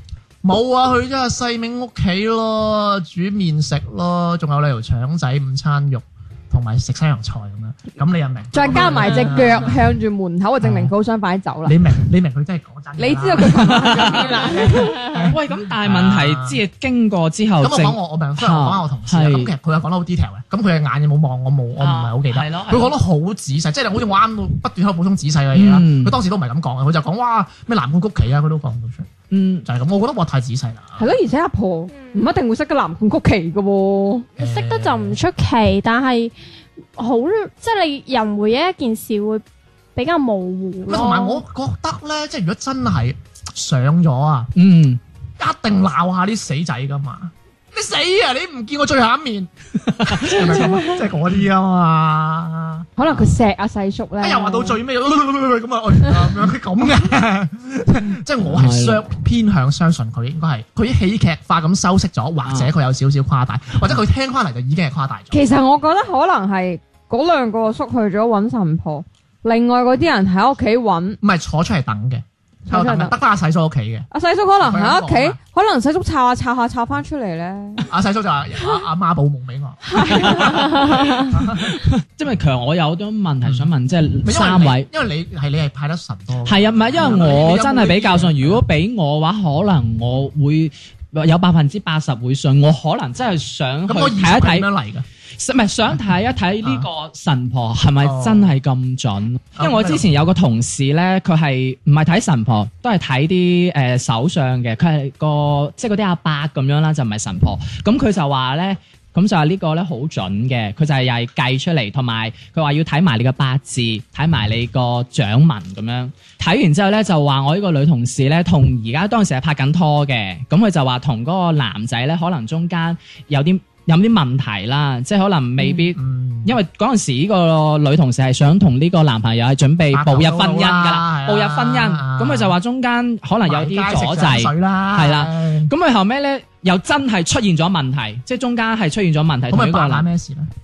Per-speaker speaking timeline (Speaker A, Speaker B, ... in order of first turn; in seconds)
Speaker A: 0.4-9.8, 10.6-10.9, 11.6-16.6, 17.6-29.1, 29.6-31.1, 34.4-35.2, 40.9-44.5, 45.4-53.3, 54.2-65.5, 71.2-74.1, 74.6-75.4, 77.9-81.8, 84.2-88.6, 93.9-95.0, 98.0-98.5, 99.6-100.1, 125.7-126.6, 129.9-132.5, 133.4-135.7, 139.5-140.5
Speaker B: 8.5-11.8, 13.0-15.1, 31.0-34.3, 53.0-54.8, 65.3-71.2, 72.7-73.1, 74.1-77.8, 79.9-80.6
Speaker C: 13.5-14.4, 15.3-19.5, 21.8-22.9, 25.5-26.1, 29.3-29.6, 44.5-45.0, 50.0-50.7, 58.4-59.0, 62.4-62.7, 80.1-80.9, 81.7-84.9, 86.5-94.7, 95.4-140.1
Speaker D: 31.9-32.3, 34.4-36.3, 37.0-39.4, 40.0-41.4